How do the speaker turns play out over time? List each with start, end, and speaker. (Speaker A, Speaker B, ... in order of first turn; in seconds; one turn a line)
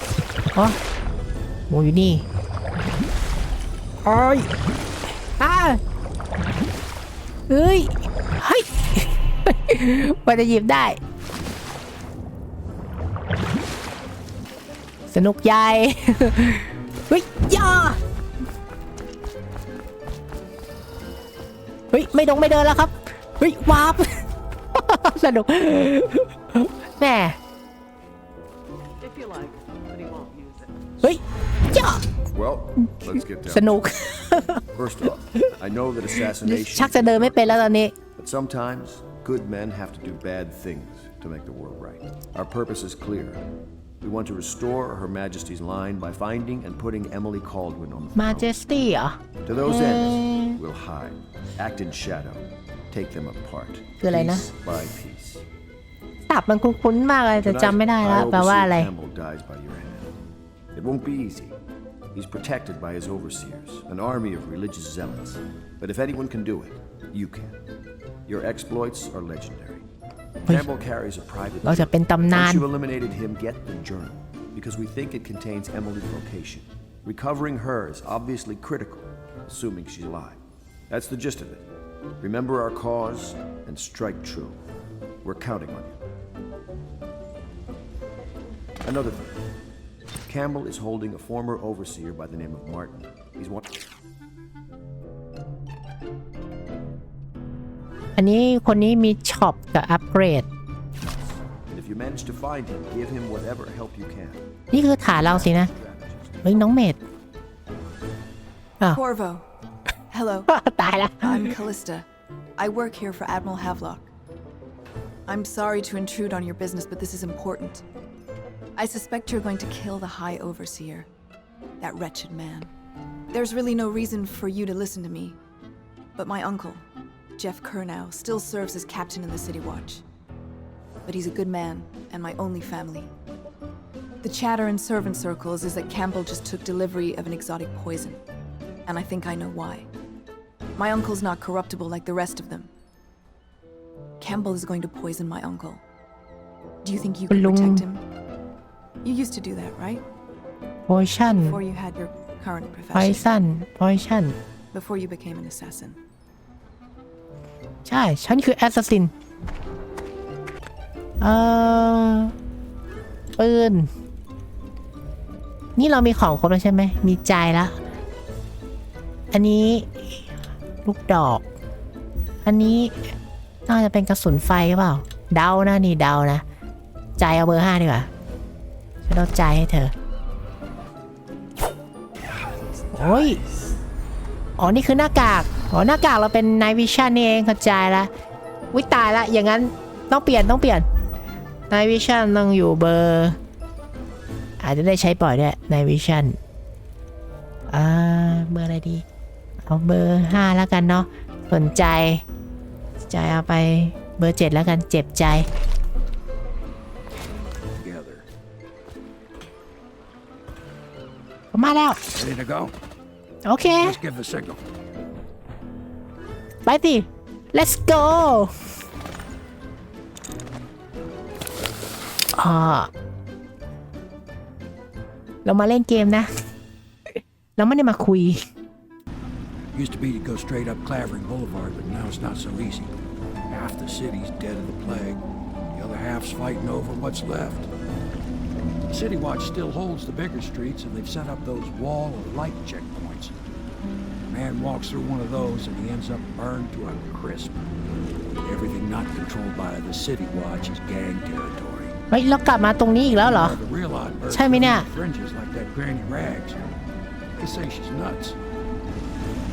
Speaker A: 1.7-2.2
Speaker A: 4.0-4.5
Speaker A: 5.4-5.8
Speaker A: 7.5-11.0
Speaker A: 15.1-18.0
Speaker A: 21.9-27.4
Speaker A: 31.0-32.0
Speaker B: 32.3-33.8
Speaker A: 32.8-34.6
Speaker B: 34.7-37.5
Speaker A: 36.3-38.0
Speaker B: 38.1-43.4
Speaker B: 44.0-48.5
Speaker A: 48.1-50.6
Speaker B: 49.4-55.4
Speaker A: 54.0-54.4
Speaker A: 56.3-58.9
Speaker B: 57.4-60.1
Speaker B: 60.7-61.6
Speaker B: 62.1-67.5
Speaker B: 68.3-69.8
Speaker B: 70.5-80.4
Speaker A: 71.6-72.6
Speaker B: 80.9-81.6
Speaker B: 82.2-84.6
Speaker B: 85.2-86.0
Speaker B: 88.8-89.4
Speaker B: 90.3-93.7
Speaker A: 98.2-100.5
Speaker B: 101.2-104.4
Speaker A: 104.7-105.7
Speaker B: 105.0-106.7
Speaker A: 106.4-107.0
Speaker C: 108.9-109.5
Speaker C: 110.1-110.5
Speaker A: 110.5-111.4
Speaker C: 111.2-112.0
Speaker C: 112.6-114.1
Speaker C: 115.3-117.8
Speaker C: 118.8-121.1
Speaker C: 121.8-122.7
Speaker C: 123.3-125.4
Speaker C: 126.2-126.8
Speaker C: 127.3-130.0
Speaker C: 131.1-133.1
Speaker C: 134.2-138.2
Speaker C: 138.8-139.9
Speaker C: 140.8-142.7
Speaker C: 144.2-145.8
Speaker C: 146.8-148.0
Speaker A: 147.3-147.8
Speaker C: 149.0-150.0
Speaker A: 150.9-151.6
Speaker C: 151.3-153.4
Speaker A: 152.9-154.4
Speaker C: 154.7-156.0
Speaker A: 157.8-159.1
Speaker A: 161.2-162.3
Speaker A: 163.4-163.9
Speaker A: 165.8-167.8
Speaker A: 169.3-170.3
Speaker A: 170.8-171.4
Speaker A: 172.4-173.1
Speaker A: 173.7-176.4
Speaker A: 177.2-178.1
Speaker A: 179.1-179.9
Speaker A: 182.9-183.4
Speaker A: 184.6-188.1
Speaker A: 188.7-190.8
Speaker A: 191.7-193.3
Speaker A: 194.6-196.4
Speaker A: 197.7-199.0
Speaker A: 199.6-202.2
Speaker A: 203.0-205.5
Speaker D: 207.7-208.2
Speaker A: 211.5-212.0
Speaker D: 212.1-212.7
Speaker A: 213.4-214.0
Speaker D: 213.8-214.6
Speaker A: 216.6-218.5
Speaker A: 222.3-222.9
Speaker A: 225.4-226.3
Speaker A: 227.2-228.4
Speaker D: 229.7-232.9
Speaker D: 233.5-235.2
Speaker D: 235.7-237.7
Speaker D: 238.9-243.3
Speaker D: 244.3-247.6
Speaker D: 248.4-251.9
Speaker A: 252.1-253.6
Speaker D: 253.2-256.6
Speaker A: 254.3-254.9
Speaker D: 257.4-258.4